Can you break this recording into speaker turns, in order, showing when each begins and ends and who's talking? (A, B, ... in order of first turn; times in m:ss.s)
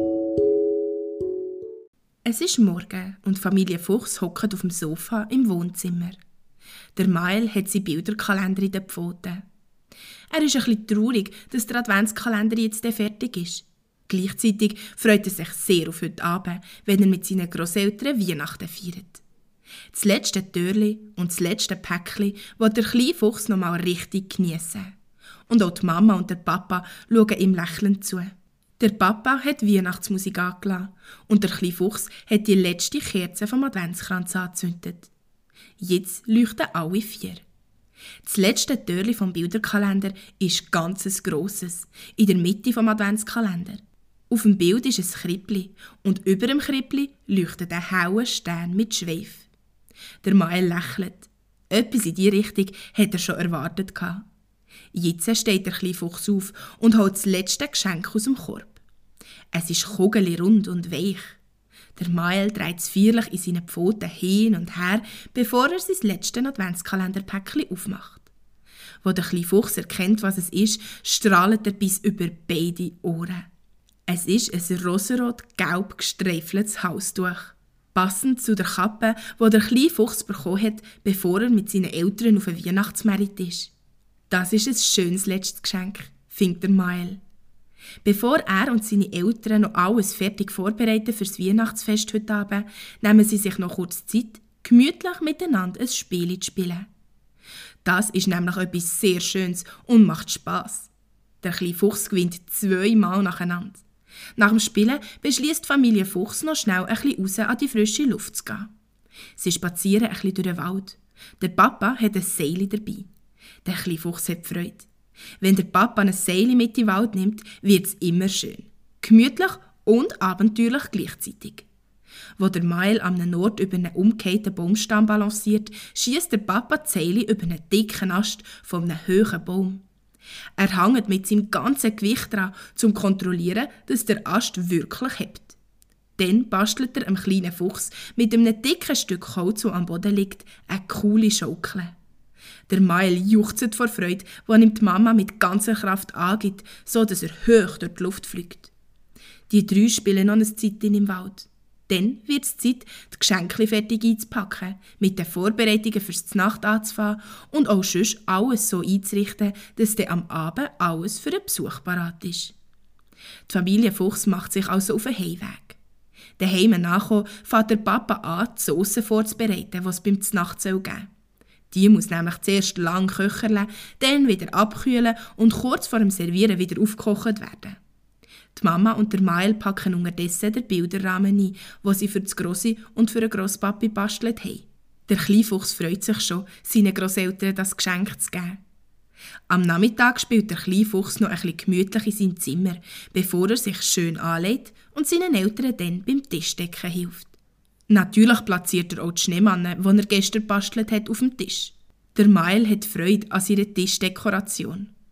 0:02.2-0:06.2 A
0:07.0-0:09.4 A
0:10.3-0:19.2 A
0:19.9-0:24.9 A
0:25.5-0:35.1 A
0:35.8-0:37.4 A
0:38.2-0:49.5 A
0:50.2-0:54.3 A
0:54.9-0:58.8 A
0:59.5-1:01.4 A
1:02.0-1:08.3 A
1:09.0-1:13.5 A
1:14.1-1:23.7 A
1:24.3-1:27.2 A
1:28.0-1:36.9 A
1:37.8-1:40.9 A
1:41.4-1:43.8 A
1:44.4-1:48.7 A
1:49.4-1:53.1 A
1:53.6-1:54.9 A
1:55.4-2:01.7 A
2:02.4-2:09.8 A
2:10.6-2:15.6 A
2:16.2-2:21.9 A
2:22.7-2:28.7 A
2:29.5-2:42.6 A
2:43.5-2:45.8 A
2:46.4-2:51.1 A
2:51.7-2:57.8 A
2:58.5-3:08.6 A
3:09.5-3:17.3 A
3:17.9-3:24.9 A